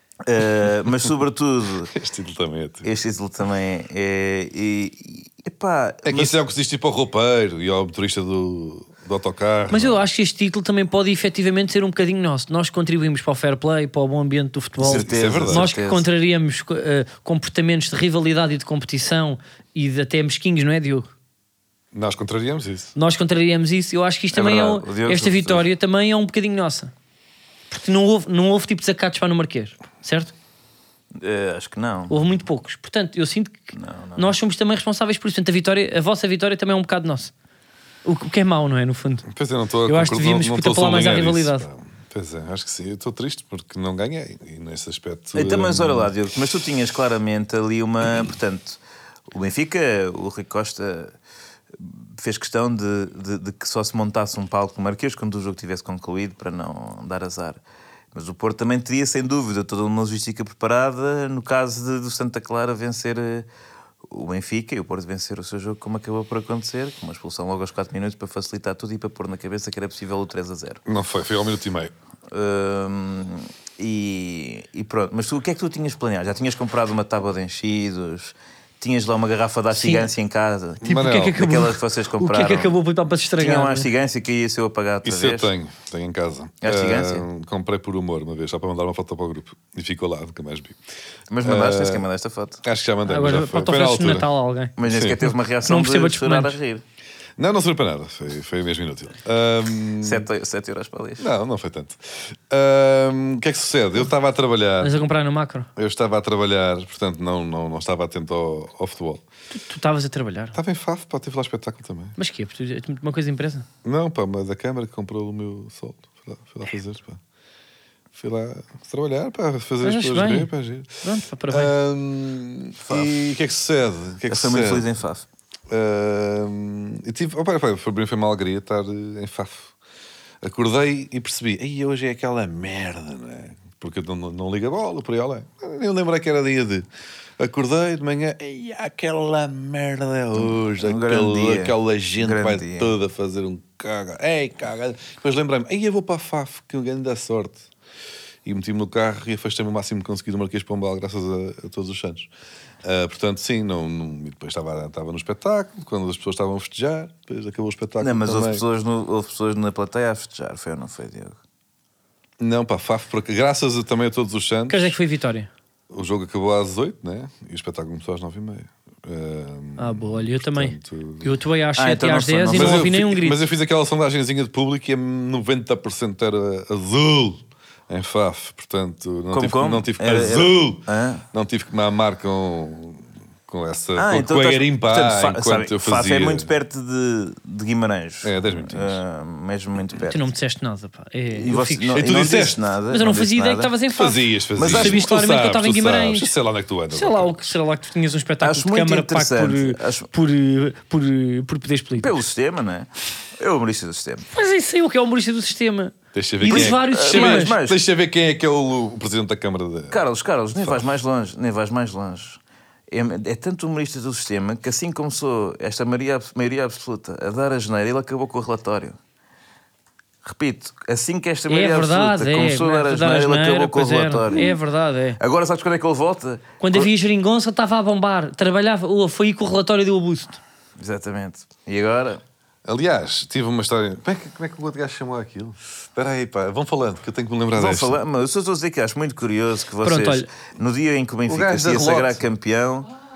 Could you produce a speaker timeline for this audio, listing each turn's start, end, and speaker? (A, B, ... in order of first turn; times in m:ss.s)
0:00.2-0:01.9 A
0:01.9-0:02.9 B
0:02.8-0:06.4 A
0:06.0-0:10.0 B
0:09.7-0:21.1 C
0:14.8-0:16.1 A
0:14.8-0:15.7 B
0:21.9-0:22.9 B
0:23.0-0:26.9 C
0:24.3-0:25.7 A
0:27.7-0:30.3 C
0:31.2-0:32.2 A
0:32.1-0:37.3 C
0:33.7-0:34.4 A
0:38.0-0:39.3 C
0:39.3-0:46.1 B
0:39.9-0:41.7 C
0:45.4-0:48.8 A
0:49.3-0:51.2 A
0:51.8-0:57.6 A
0:58.1-1:03.5 A
1:04.1-1:10.8 A
1:10.9-1:11.9 B
1:12.3-1:22.8 A
1:19.7-1:20.1 C
1:20.8-1:21.4 B
1:20.8-1:23.9 C
1:23.4-1:25.5 A
1:25.0-1:30.8 B
1:26.6-1:27.3 A
1:31.3-1:32.6 A
1:31.4-1:32.1 B
1:32.6-1:34.3 B
1:33.1-1:34.8 C
1:34.8-1:36.8 A
1:34.8-1:35.2 B
1:35.6-1:36.6 C
1:37.4-1:40.3 B
1:40.0-1:41.3 A
1:41.2-1:45.0 B
1:44.8-1:45.7 C
1:45.8-1:49.2 B
1:49.5-1:50.6 C
1:50.5-1:52.2 B
1:52.2-1:53.7 C
1:53.8-1:57.2 B
1:58.1-2:04.9 B
1:59.8-2:00.5 C
2:01.0-2:01.7 C
2:02.8-2:03.1 A
2:04.3-2:05.2 A
2:05.7-2:09.7 B
2:10.4-2:16.9 B
2:17.4-2:27.6 B
2:20.4-2:22.9 A
2:28.4-2:32.3 B
2:32.8-2:38.6 B
2:38.0-2:41.4 A
2:42.4-2:45.0 B
2:44.7-2:45.5 C
2:45.9-2:51.3 B
2:49.8-2:53.4 C
2:51.8-2:52.9 A
2:52.5-3:06.5 B
2:59.3-3:01.2 A
3:04.0-3:10.3 A
3:08.2-3:09.0 B
3:10.1-3:12.0 C
3:11.3-3:13.7 A
3:12.0-3:12.6 B
3:12.9-3:16.3 C
3:13.9-3:17.5 B
3:14.6-3:15.1 A
3:16.9-3:22.2 C
3:18.4-3:20.1 A
3:22.0-3:24.3 A
3:24.3-3:27.6 C
3:26.1-3:30.0 B
3:26.5-3:27.8 A
3:29.9-3:39.0 A
3:30.6-3:30.8 B
3:40.2-3:44.6 A
3:41.5-3:45.2 C
3:45.2-3:46.9 A
3:46.6-3:50.4 C
3:50.8-3:52.2 A
3:52.6-3:58.0 B
3:57.5-4:02.9 A
3:59.8-4:00.3 C
4:01.3-4:02.2 B